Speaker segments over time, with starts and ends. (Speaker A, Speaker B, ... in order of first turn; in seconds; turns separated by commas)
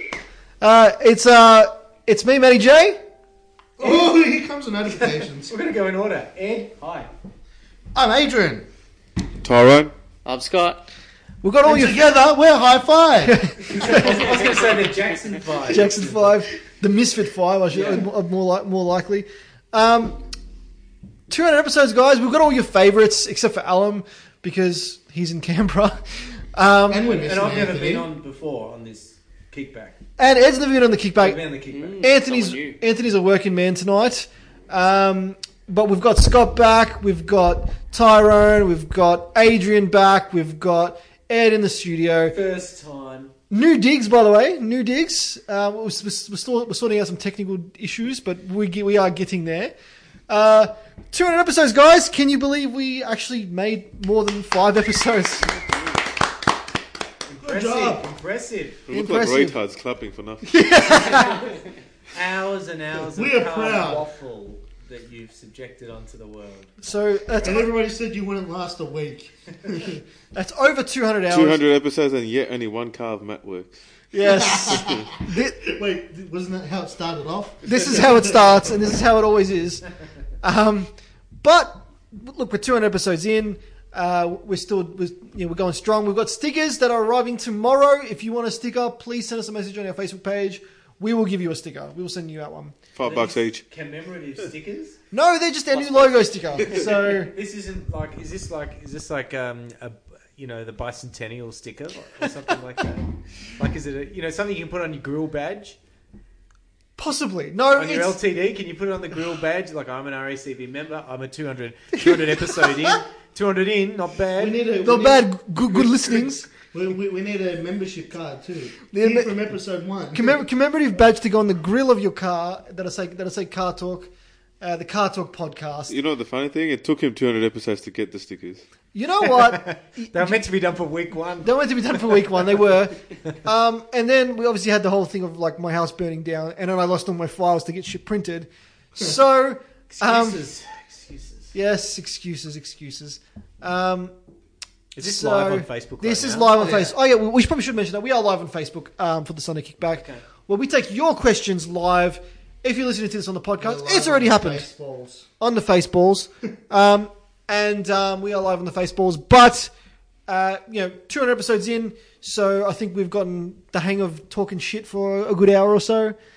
Speaker A: 0.6-3.0, Speaker B: 3.8-5.5, Speaker C: 3.8-4.2, Speaker C: 4.9-7.1, Speaker B: 7.9-8.7, Speaker D: 9.4-9.9, Speaker E: 10.2-10.8, Speaker A: 11.4-12.1, Speaker B: 11.6-13.5, Speaker A: 13.2-13.9, Speaker C: 13.6-16.3, Speaker E: 13.9-14.9, Speaker A: 15.6-20.2, Speaker C: 17.7-18.1, Speaker A: 21.3-27.1, Speaker B: 26.9-28.1, Speaker C: 27.1-30.0, Speaker A: 30.2-31.5, Speaker C: 31.2-32.0, Speaker E: 31.7-32.8, Speaker A: 32.0-42.4, Speaker C: 42.3-43.3, Speaker A: 43.5-49.7, Speaker A: 50.3-55.6, Speaker C: 57.3-58.8, Speaker B: 57.4-58.1, Speaker D: 58.9-60.6, Speaker A: 58.9-59.6, Speaker A: 60.4-61.5, Speaker C: 61.1-61.4, Speaker C: 62.1-66.7, Speaker B: 63.0-64.0, Speaker A: 66.8-67.7, Speaker B: 67.4-70.0, Speaker A: 70.3-71.6, Speaker D: 71.3-73.8, Speaker A: 74.1-75.6, Speaker B: 74.2-78.8, Speaker A: 77.6-92.8, Speaker D: 92.9-93.6, Speaker C: 93.0-95.0, Speaker A: 95.1-97.3, Speaker E: 95.7-96.9, Speaker C: 97.0-105.8, Speaker A: 107.0-108.2, Speaker C: 107.7-114.6, Speaker B: 114.3-120.5, Speaker A: 114.8-116.5, Speaker A: 118.9-119.4, Speaker A: 120.1-125.9, Speaker D: 125.9-128.6, Speaker A: 128.9-130.4, Speaker C: 129.2-132.2, Speaker A: 131.4-140.4, Speaker C: 139.9-141.5, Speaker A: 141.5-144.1, Speaker C: 144.9-146.6, Speaker A: 145.0-154.7, Speaker B: 146.4-147.0, Speaker C: 149.9-150.3, Speaker B: 153.6-155.3, Speaker A: 155.4-159.7, Speaker A: 160.2-166.2